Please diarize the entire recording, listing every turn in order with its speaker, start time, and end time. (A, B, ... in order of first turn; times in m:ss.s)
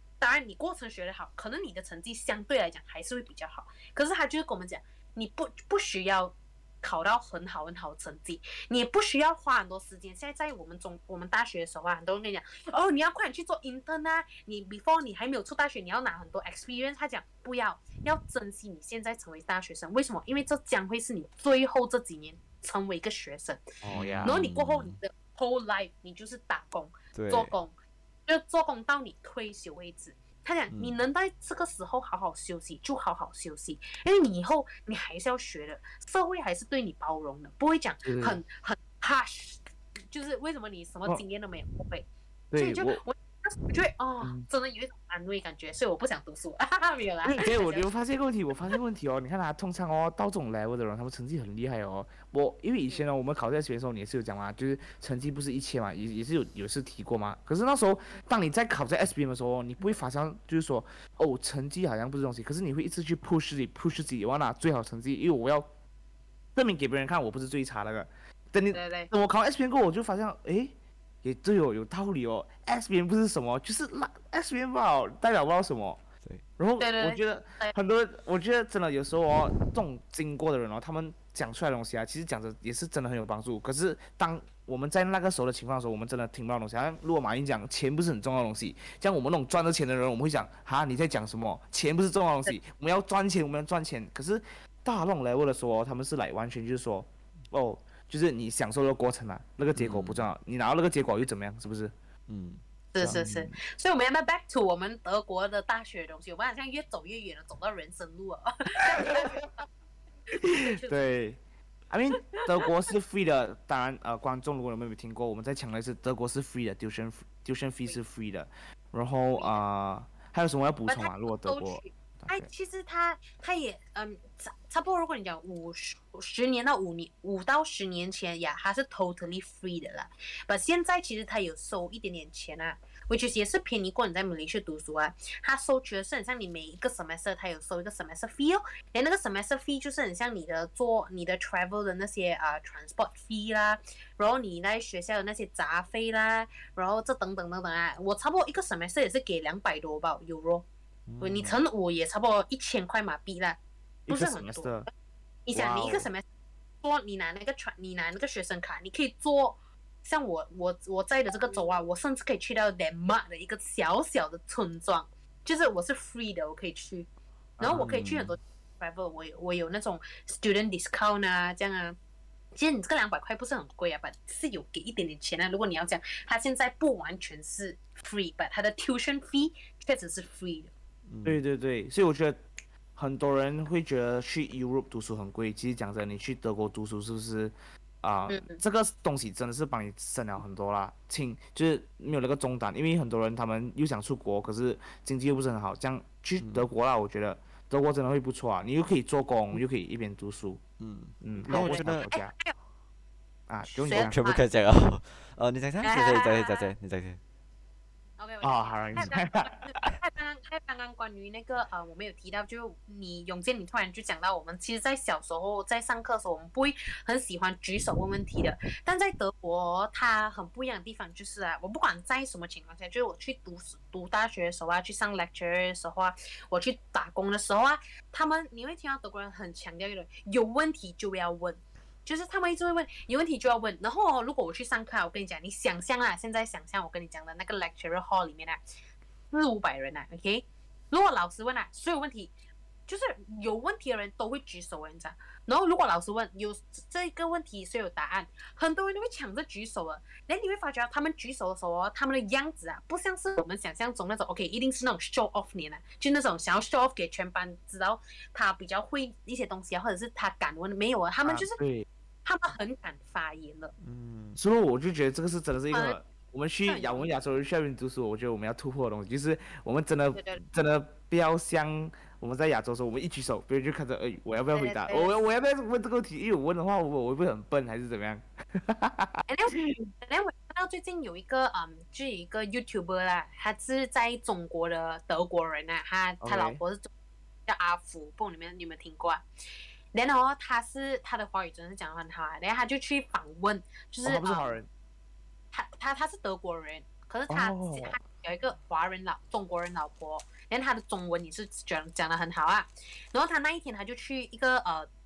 0:00.2-0:23.6 A
0:23.8-0:24.3 B
0:23.9-0:25.0 C
0:24.2-0:27.7 A
0:27.2-0:27.5 C
0:28.3-0:42.1 A
0:30.7-0:31.0 C
0:38.0-0:38.4 B
0:42.5-0:43.0 B
0:42.6-0:47.9 A
0:44.2-0:44.5 B
0:47.2-1:05.7 B
1:06.6-1:16.0 B
1:08.7-1:09.1 A
1:16.6-1:41.9 B
1:16.8-1:17.7 A
1:39.8-1:40.3 C
1:42.3-1:42.6 C
1:42.9-1:49.7 A
1:43.0-1:43.5 B
1:50.4-1:51.4 B
1:50.4-1:51.0 A
1:51.9-2:02.5 B
1:59.4-1:59.6 A
2:00.9-2:30.7 A
2:31.2-2:31.6 B
2:31.2-2:34.9 A
2:34.1-2:34.9 B
2:35.5-2:36.2 A
2:35.5-2:36.1 B
2:36.8-2:47.1 A
2:47.6-2:48.1 B
2:47.6-2:52.0 A
2:47.7-2:48.4 C
2:52.5-3:00.7 A
3:01.1-3:01.4 C
3:01.2-3:02.4 B
3:03.0-3:20.6 B
3:08.3-3:08.6 A
3:16.4-3:16.7 C
3:20.8-3:22.1 C
3:21.2-3:22.3 B
3:21.5-3:22.5 A
3:23.5-3:24.2 B
3:23.8-3:24.4 A
3:23.9-3:27.2 C
3:25.8-3:26.7 A
3:28.2-3:58.6 A
3:28.4-3:30.0 B
3:59.3-4:02.3 A
4:02.9-4:21.6 A
4:21.2-4:21.9 B
4:22.2-4:23.7 A
4:23.8-4:24.4 C
4:24.4-4:39.7 B
4:25.7-4:26.0 A
4:26.7-4:27.1 A
4:30.2-4:30.4 A
4:34.5-4:35.2 A
4:39.3-4:46.9 A
4:46.2-4:46.6 B
4:47.5-4:49.2 A
4:49.9-4:54.6 A
4:54.0-4:54.7 B
4:55.5-5:04.9 A
4:57.3-4:58.0 B